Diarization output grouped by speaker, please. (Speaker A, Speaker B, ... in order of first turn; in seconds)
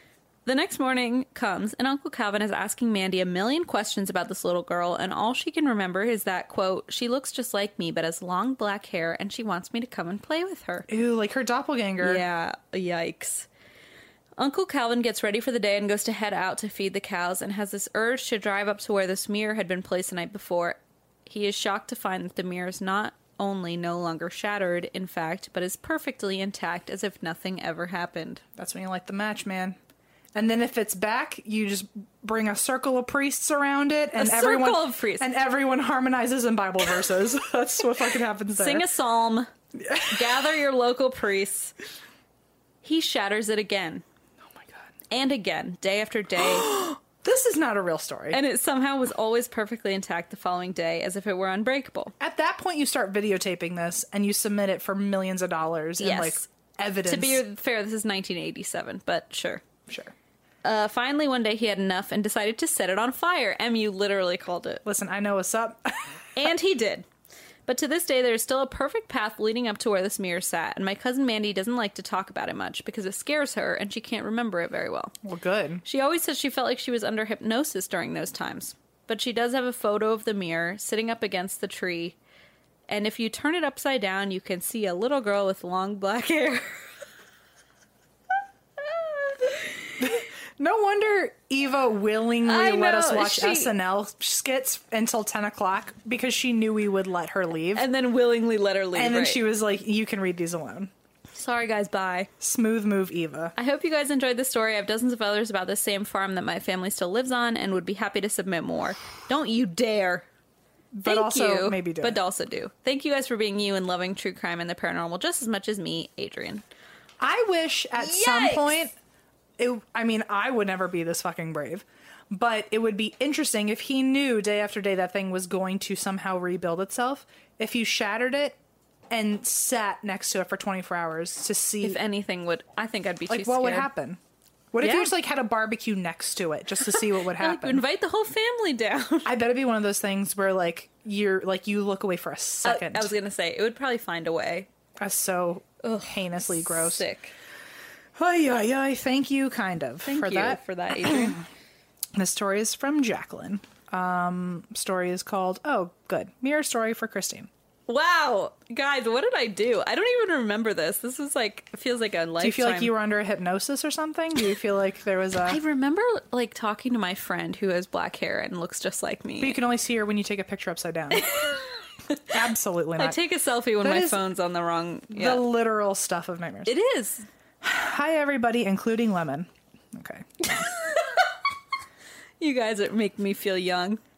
Speaker A: 0.5-10.9, 12.0-13.5, 14.4-28.4, 34.2-35.3, 38.6-39.5, 40.1-41.7, 42.8-44.0, 45.1-46.8, 48.3-52.1, 56.0-56.4, 57.0-59.6, 60.6-64.8, 66.3-67.0, 67.7-75.1, 75.8-82.2, 82.9-86.8, 88.8-90.1, 92.4-93.7, 97.7-99.4, 101.3-102.3, 103.5-110.2, 111.0-116.6, 118.0-118.8, 131.8-133.9, 134.8-135.1, 136.9-139.3, 142.6-144.7, 145.8-147.3, 150.0-151.4, 157.9-162.9, 165.4-169.6, 171.1-172.3, 173.0-175.4, 176.7-177.2, 180.4-181.2, 182.4-184.0
Speaker B: 10.9-12.2, 28.6-29.8, 30.3-38.9, 39.7-40.4, 44.5-44.9, 46.4-48.4, 52.2-57.4, 59.9-60.1, 64.8-66.5, 75.2-75.8, 90.0-97.8, 98.9-100.9, 102.4-103.5, 110.9-112.2, 117.2-118.9, 119.6-128.6, 129.1-132.0, 133.3-134.2, 134.7-137.8, 139.2-143.1, 145.0-147.0, 148.2-151.4, 152.2-157.5, 162.4-165.6, 169.4-171.3, 172.3-173.2, 173.8-174.2, 175.1-176.7, 177.6-180.7